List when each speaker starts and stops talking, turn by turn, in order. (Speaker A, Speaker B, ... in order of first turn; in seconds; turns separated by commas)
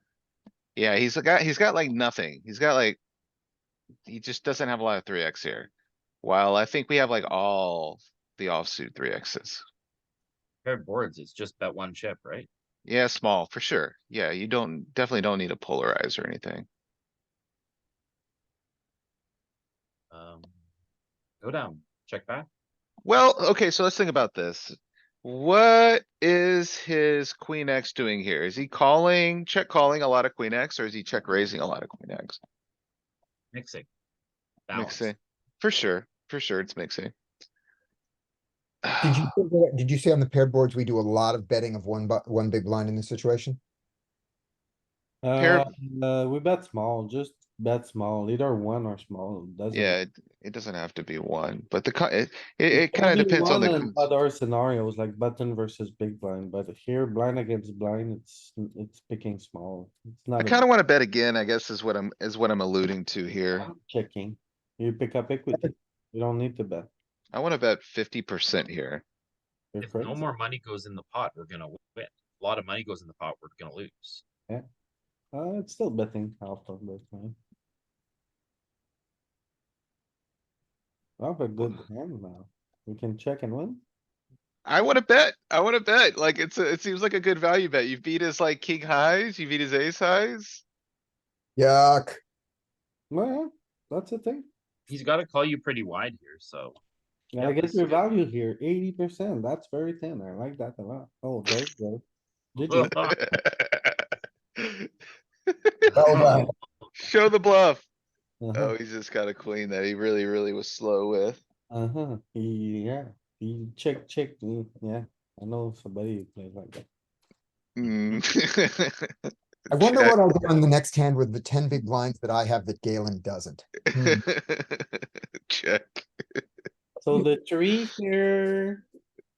Speaker A: 0.8-3.0, Speaker A: 4.1-5.7, Speaker A: 6.2-9.6, Speaker B: 10.6-12.5, Speaker A: 12.8-16.6, Speaker B: 20.1-20.5, Speaker B: 21.4-22.5, Speaker A: 23.0-32.4, Speaker B: 33.5-33.9, Speaker B: 34.7-35.1, Speaker A: 34.7-37.1, Speaker A: 38.8-39.2, Speaker C: 39.0-43.6, Speaker D: 45.2-50.0, Speaker A: 45.4-45.7, Speaker A: 49.7-54.1, Speaker D: 52.7-60.6, Speaker A: 60.4-63.7, Speaker D: 63.5-66.9, Speaker A: 67.3-69.0, Speaker D: 69.7-70.2, Speaker B: 69.8-74.2, Speaker D: 75.3-77.3, Speaker D: 81.2-83.8, Speaker A: 84.7-90.6, Speaker C: 91.5-92.2, Speaker D: 93.1-94.5, Speaker B: 94.9-96.8, Speaker D: 97.3-102.0, Speaker B: 97.4-98.0, Speaker D: 102.5-102.9, Speaker B: 102.7-103.2, Speaker A: 102.8-104.9, Speaker A: 105.5-106.4, Speaker B: 105.9-107.0, Speaker C: 105.9-106.5, Speaker A: 107.0-107.8, Speaker D: 108.4-108.7, Speaker A: 108.5-111.4, Speaker D: 111.7-116.8, Speaker A: 117.8-120.2, Speaker B: 117.8-118.2, Speaker C: 119.7-123.8, Speaker A: 123.9-126.4, Speaker D: 127.0-128.8